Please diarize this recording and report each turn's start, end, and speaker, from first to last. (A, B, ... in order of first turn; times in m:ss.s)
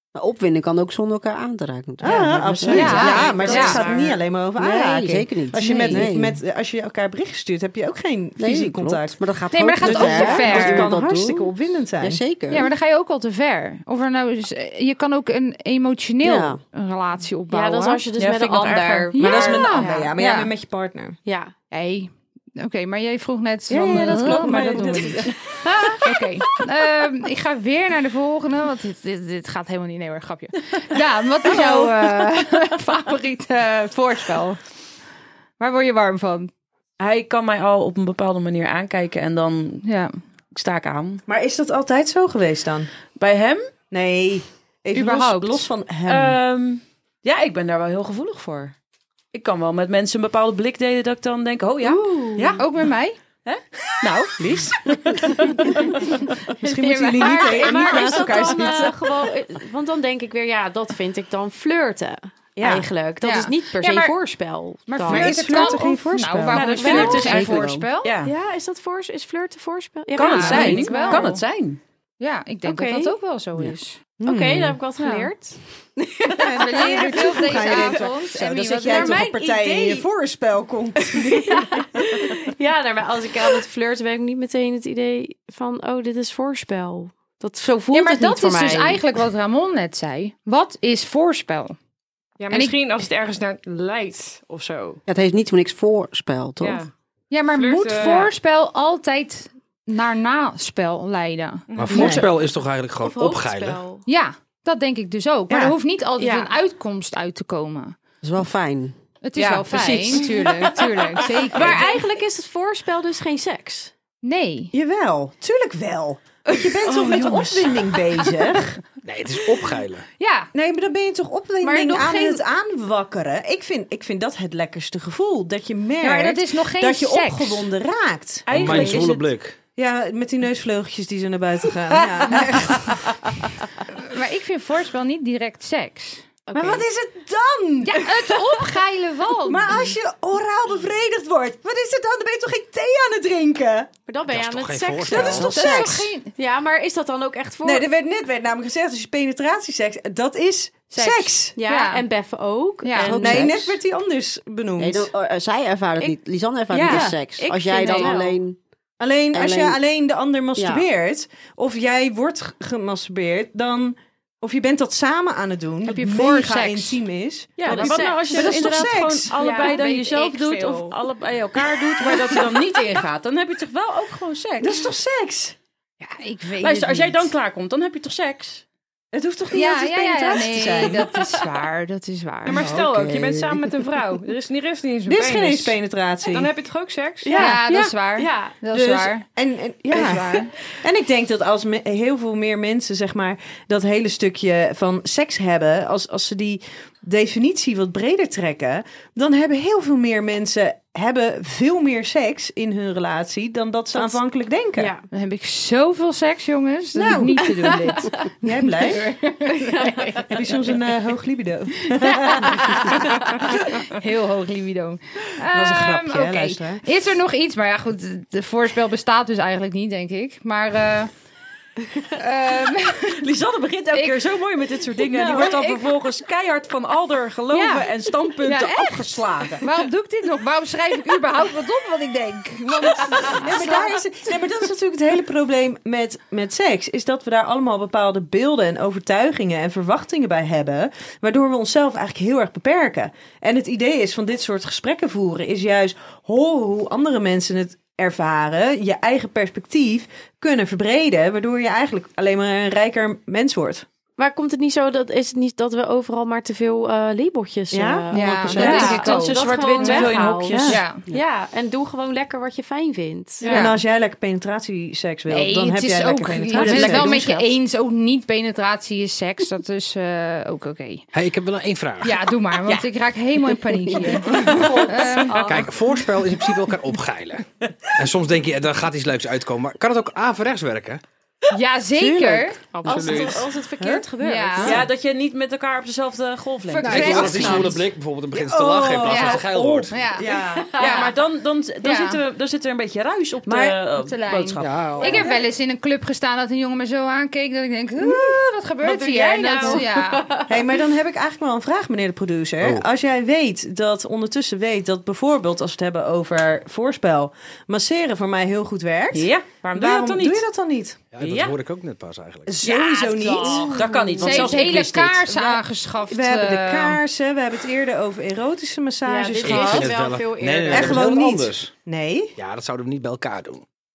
0:00.1-0:03.3 A
0:02.0-0:09.2 B
0:02.7-0:04.2 C
0:02.7-0:03.8 D
0:04.6-0:06.4 A
0:05.6-0:06.1 D
0:08.4-0:12.7 A
0:09.5-0:10.9 D
0:09.8-0:12.2 B
0:12.5-0:18.0 D
0:16.2-0:16.6 A
0:17.5-0:20.1 C
0:18.2-0:19.4 E
0:19.1-0:20.5 D
0:19.2-0:21.2 B
0:21.2-0:21.5 C
0:21.7-0:25.3 D
0:23.7-0:26.0 B
0:24.2-0:26.0 C
0:26.0-0:34.6 D
0:35.6-0:36.5 D
0:37.0-0:39.8 E
0:39.8-0:40.1 D
0:40.5-0:41.2 E
0:41.3-0:42.9 B
0:43.2-0:43.7 E
0:43.9-0:46.4 B
0:44.9-0:45.7 D
0:46.1-0:48.7 E
0:49.3-0:52.6 E
0:51.8-0:52.6 C
0:52.6-0:53.2 D
0:53.4-0:55.9 E
0:56.6-0:59.2 B
0:56.8-0:58.6 D
0:56.8-1:05.8 C
1:02.6-1:02.9 B
1:03.2-1:04.1 D
1:04.9-1:08.1 D
1:05.0-1:07.3 B
1:06.5-1:08.3 E
1:06.5-1:07.5 C
1:07.2-1:07.8 A
1:08.2-1:11.4 C
1:10.1-1:11.8 E
1:10.2-1:11.4 D
1:12.2-1:14.0 D
1:12.6-1:13.1 C
1:14.2-1:18.0 C
1:14.2-1:14.7 B
1:15.0-1:15.3 D
1:16.4-1:21.7 B
1:16.5-1:19.2 D
1:18.8-1:20.1 C
1:21.0-1:29.0 C
1:27.9-1:31.8 D
1:32.4-1:35.0 F
1:32.5-1:32.8 D
1:35.1-1:36.8 A
1:36.6-1:36.9 F
1:37.3-1:42.2 D
1:37.5-1:38.3 F
1:41.7-1:42.1 F
1:41.7-1:43.8 G
1:41.9-1:42.3 B
1:43.0-1:44.0 C
1:44.0-1:47.9 D
1:45.5-1:45.8 B
1:46.2-1:46.5 C
1:48.2-1:48.9 A
1:49.2-1:52.0 D
1:49.7-1:53.9 C
1:54.2-1:54.7 D
1:54.7-1:58.8 B
1:56.8-1:57.9 C
1:59.0-2:00.0 G
2:00.2-2:00.5 D
2:00.5-2:09.1 B
2:01.6-2:02.4 C
2:06.0-2:07.7 D
2:08.5-2:09.3 E
2:08.5-2:09.6 G
2:09.8-2:13.2 B
2:14.0-2:16.2 D
2:16.5-2:16.9 C
2:16.5-2:18.2 B
2:17.8-2:20.0 D
2:19.4-2:23.9 B
2:24.1-2:27.8 C
2:24.3-2:25.6 G
2:25.1-2:26.3 D
2:25.2-2:26.1 A
2:25.4-2:26.0 B
2:27.6-2:31.6 B
2:30.9-2:32.0 D
2:31.5-2:33.5 C
2:32.8-2:33.2 D
2:33.0-2:33.8 A
2:33.2-2:35.1 B
2:34.8-2:38.6 A
2:36.7-2:38.4 C
2:36.9-2:37.2 B
2:39.0-2:49.3 B
2:39.3-2:39.8 A
2:40.6-2:40.8 A
2:45.8-2:47.0 D
2:47.6-2:54.9 E
2:47.6-2:48.6 C
2:49.3-2:49.8 C
2:49.4-2:50.9 D
2:54.6-2:55.6 B
2:56.0-2:57.3 D
2:56.6-2:58.6 E
2:59.1-3:01.1 B
2:59.5-3:02.6 D
3:02.4-3:07.4 F
3:02.6-3:03.6 A
3:05.0-3:06.5 B
3:07.2-3:08.6 C
3:07.3-3:09.2 D
3:08.7-3:24.9 B
3:09.9-3:10.4 D
3:10.0-3:10.4 C
3:24.8-3:25.0 C
3:25.1-3:28.1 D
3:26.9-3:27.8 B
3:28.4-3:29.1 B
3:28.8-3:30.1 D
3:29.5-3:30.3 C
3:30.3-3:32.9 B
3:32.2-3:41.1 D
3:35.5-3:36.8 B
3:42.1-3:43.2 D
3:43.1-3:49.6 E
3:43.9-3:44.2 D
3:45.1-3:45.9 D
3:47.5-3:47.9 C
3:48.4-3:54.0 D
3:53.2-4:13.8 B
4:14.2-4:23.5 C
4:17.7-4:19.2 B
4:18.1-4:20.1 D
4:18.5-4:20.8 E
4:19.8-4:20.8 B
4:20.7-4:21.0 D
4:23.4-4:23.8 D
4:23.5-4:27.4 B
4:25.3-4:31.0 D
4:26.6-4:27.1 C
4:31.1-4:32.2 G
4:32.0-4:35.6 D
4:34.2-4:35.6 C
4:34.4-4:34.7 E
4:35.3-4:41.0 G
4:41.5-4:42.6 D
4:42.0-4:42.6 A
4:42.7-4:43.5 F
4:42.8-4:44.8 C
4:43.8-4:44.0 B
4:44.2-4:44.8 D
4:44.6-4:47.7 E
4:46.7-4:47.8 D
4:46.8-4:50.1 G
4:47.4-4:47.7 C
4:48.3-4:50.8 B
4:49.0-4:50.2 D
4:50.5-4:51.1 C
4:50.8-4:55.0 E
4:50.8-4:51.0 D
4:51.8-4:52.2 D
4:53.5-4:53.8 B
4:54.0-5:00.2 D
4:54.6-4:55.2 G
4:55.0-4:55.3 B
4:58.0-4:58.4 B
4:58.8-5:00.6 C
5:00.5-5:11.0 B
5:09.1-5:10.4 E
5:11.1-5:12.6 G
5:11.2-5:11.5 E
5:12.5-5:14.0 B
5:12.6-5:14.7 C
5:13.4-5:15.3 E
5:14.2-5:17.0 D
5:15.3-5:15.6 B
5:16.1-5:19.9 B
5:19.0-5:21.3 C
5:19.4-5:21.7 G
5:20.7-5:22.4 B
5:22.4-5:23.6 G